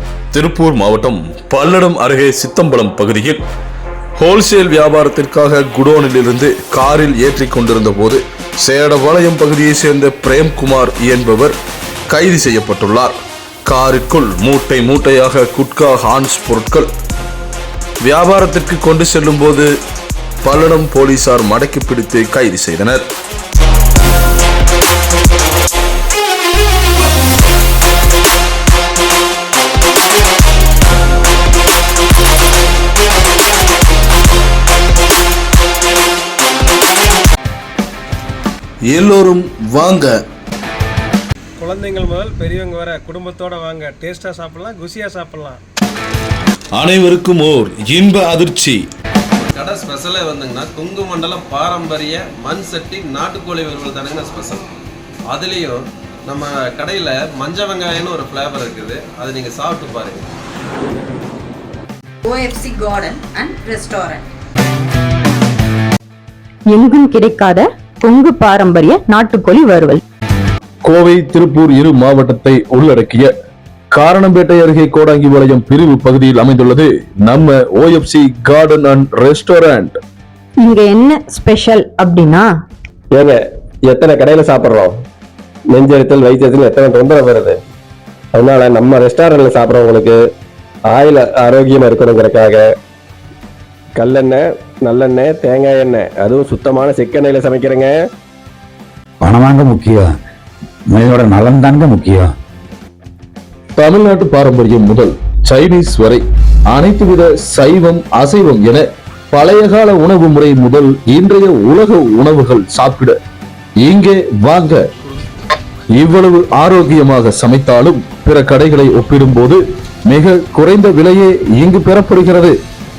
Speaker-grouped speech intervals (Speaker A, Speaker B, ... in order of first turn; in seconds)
Speaker A: 0.3-3.4, 4.2-11.6, 12.1-13.1, 13.7-16.9, 18.0-19.7, 20.4-23.0, 38.9-40.1, 46.7-48.8, 70.8-73.3, 73.9-80.0, 103.8-113.2, 113.8-114.8, 115.9-122.5
Speaker B: 41.6-45.6
Speaker C: 49.4-54.6, 55.3-60.2
Speaker D: 62.2-64.2
Speaker E: 66.7-70.0, 80.6-82.5
Speaker F: 83.1-84.9, 85.7-87.6, 88.3-90.2, 90.9-92.7, 94.0-97.9
Speaker G: 99.2-100.1, 100.9-102.3